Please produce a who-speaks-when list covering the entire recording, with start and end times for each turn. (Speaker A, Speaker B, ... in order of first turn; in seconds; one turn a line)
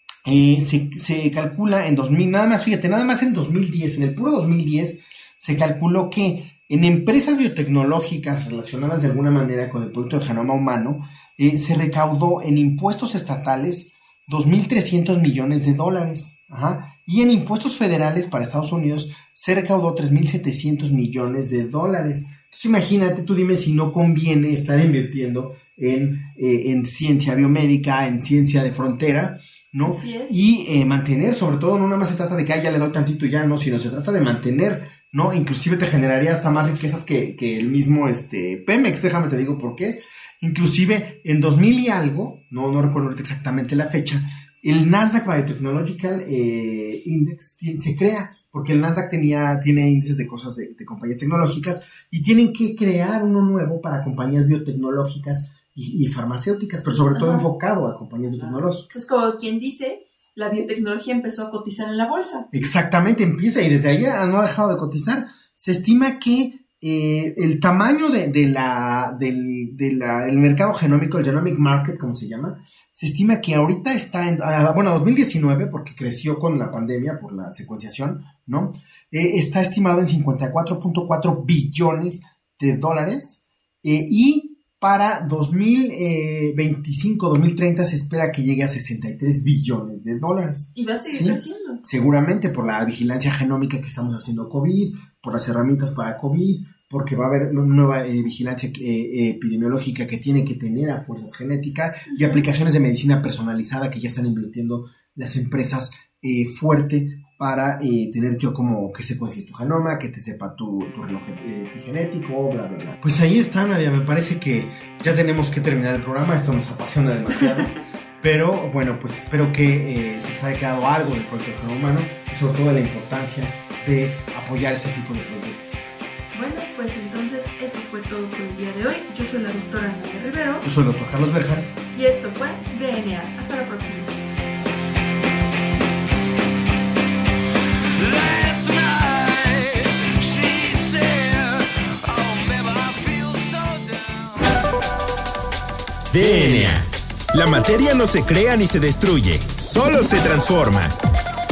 Speaker A: 0.2-58.9
Speaker B: 29.8-30.4
Speaker B: 56.9-57.5
Speaker B: 58.4-62.5
Speaker A: 62.5-125.9
Speaker B: 90.8-91.8
Speaker B: 102.1-102.5
Speaker B: 126.3-130.7
Speaker A: 130.6-131.8
Speaker B: 131.9-134.2
Speaker C: 138.0-144.6
Speaker C: 146.1-150.9